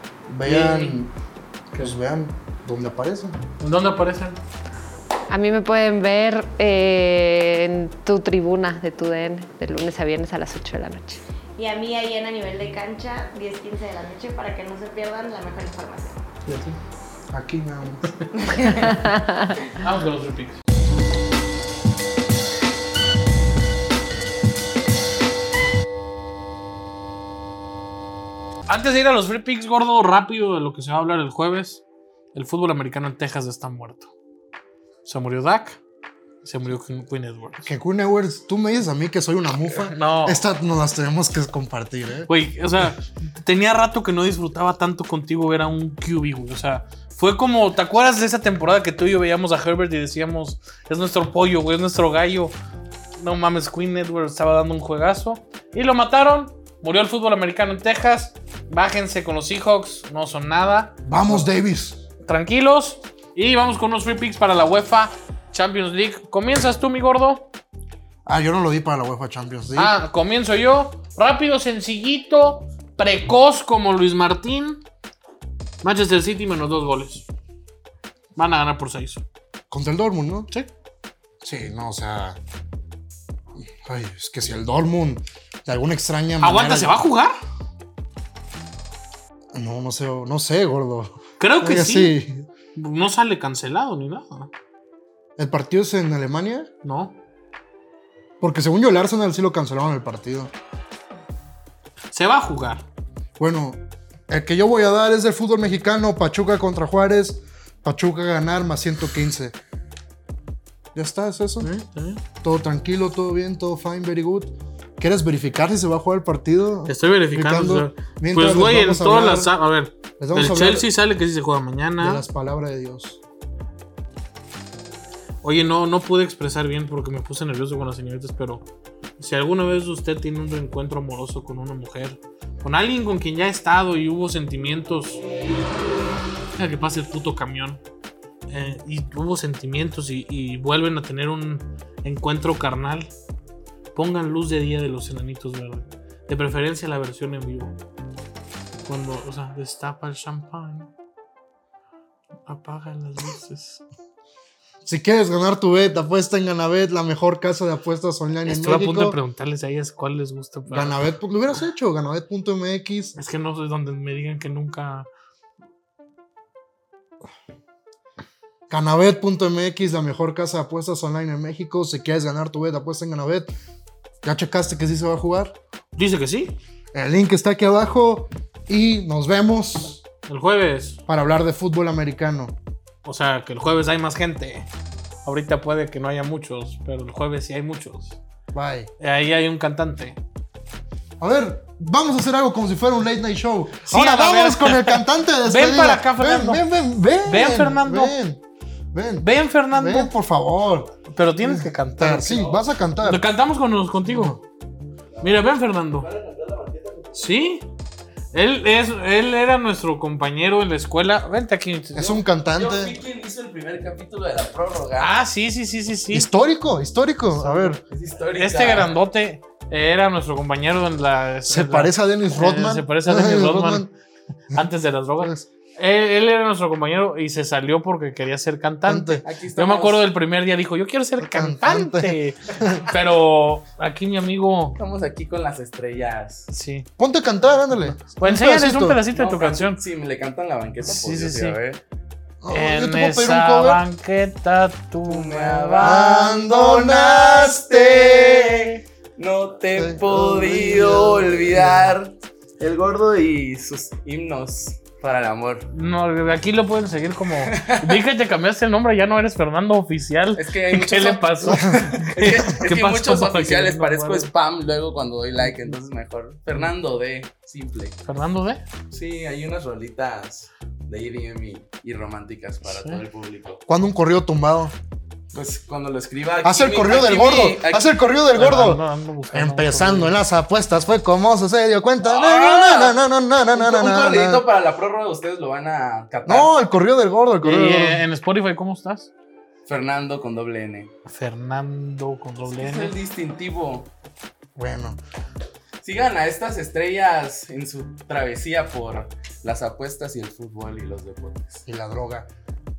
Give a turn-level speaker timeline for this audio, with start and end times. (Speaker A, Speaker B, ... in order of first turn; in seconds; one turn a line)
Speaker A: 0.3-1.1
Speaker B: 0.4-1.0
Speaker A: 1.8-3.4
Speaker B: 3.6-4.4
Speaker C: 5.3-11.2
Speaker D: 11.6-16.2
Speaker B: 16.5-16.8
Speaker A: 17.3-18.1
Speaker D: 18.4-18.9
Speaker C: 18.9-19.5
Speaker B: 19.7-20.6
Speaker B: 28.7-31.8
Speaker B: 32.3-34.1
Speaker B: 35.0-35.8
Speaker B: 36.4-37.7
Speaker A: 37.7-42.3
Speaker B: 39.7-40.5
Speaker B: 42.3-52.5
Speaker B: 53.2-61.5
Speaker A: 61.0-62.0
Speaker B: 62.3-67.5
Speaker A: 68.3-69.9
Speaker B: 69.8-74.8
Speaker B: 75.8-77.3
Speaker B: 78.3-79.2
Speaker A: 79.7-80.5
Speaker A: 81.4-82.4
Speaker A: 83.7-87.0
Speaker B: 86.4-87.3
Speaker A: 89.5-92.5
Speaker B: 91.4-92.2
Speaker B: 92.8-94.5
Speaker A: 95.4-96.7
Speaker B: 96.8-97.2
Speaker A: 98.4-100.5
Speaker B: 102.1-102.8
Speaker A: 103.4-109.5
Speaker A: 111.0-111.7
Speaker B: 111.6-112.2
Speaker A: 112.4-119.5
Speaker B: 116.9-122.2
Speaker A: 120.2-120.9
Speaker A: 122.0-123.2
Speaker B: 125.4-128.7
Speaker B: 129.2-135.2
Speaker B: 136.6-137.8
Speaker B: 138.5-143.1
Speaker B: 143.9-147.8
Speaker B: 148.8-150.9
Speaker B: 152.5-153.8
Speaker A: 154.8-159.2
Speaker B: 158.5-161.1
Speaker A: 160.7-163.2
Speaker B: 163.2-165.1
Speaker A: 168.7-173.5
Speaker A: 174.2-175.6
Speaker B: 175.9-176.6
Speaker A: 176.9-180.1
Speaker B: 180.3-181.0
Speaker A: 181.1-182.6
Speaker B: 183.1-184.7
Speaker B: 185.2-188.2
Speaker A: 188.5-188.9
Speaker B: 189.0-190.2
Speaker A: 191.2-198.4
Speaker B: 193.9-196.6
Speaker B: 197.2-198.2
Speaker A: 198.9-203.2
Speaker B: 199.2-200.1
Speaker B: 201.1-204.4
Speaker A: 204.1-204.4
Speaker B: 205.2-206.1
Speaker E: 206.0-207.2
Speaker B: 207.1-207.7
Speaker B: 208.3-212.1
Speaker A: 212.0-213.0
Speaker E: 212.0-215.2
Speaker B: 215.0-216.3
Speaker A: 216.1-217.8
Speaker E: 217.4-218.9
Speaker B: 218.3-223.9
Speaker A: 221.5-223.9
Speaker B: 224.5-234.8
Speaker A: 228.9-229.2
Speaker E: 229.2-230.1
Speaker A: 231.2-232.8
Speaker E: 234.8-236.5
Speaker B: 236.5-236.9
Speaker A: 237.0-239.0
Speaker B: 237.9-239.8
Speaker E: 239.1-241.8
Speaker B: 240.8-241.6
Speaker A: 242.4-243.8
Speaker B: 242.5-246.0
Speaker E: 245.1-255.7
Speaker A: 245.8-248.6
Speaker A: 249.8-252.0
Speaker B: 255.7-264.3
Speaker E: 257.4-258.0
Speaker E: 260.4-268.0
Speaker A: 261.5-261.9
Speaker B: 268.1-268.6
Speaker E: 268.9-273.6
Speaker B: 272.7-273.0
Speaker A: 273.7-274.7
Speaker E: 275.3-278.0
Speaker A: 276.4-284.4
Speaker B: 278.4-280.2
Speaker E: 282.0-283.0
Speaker E: 283.6-286.5
Speaker A: 286.2-288.0
Speaker B: 287.4-289.1
Speaker E: 289.7-290.9
Speaker B: 291.1-292.9
Speaker E: 292.5-293.9
Speaker A: 294.6-295.0
Speaker E: 295.8-301.6
Speaker A: 301.7-302.3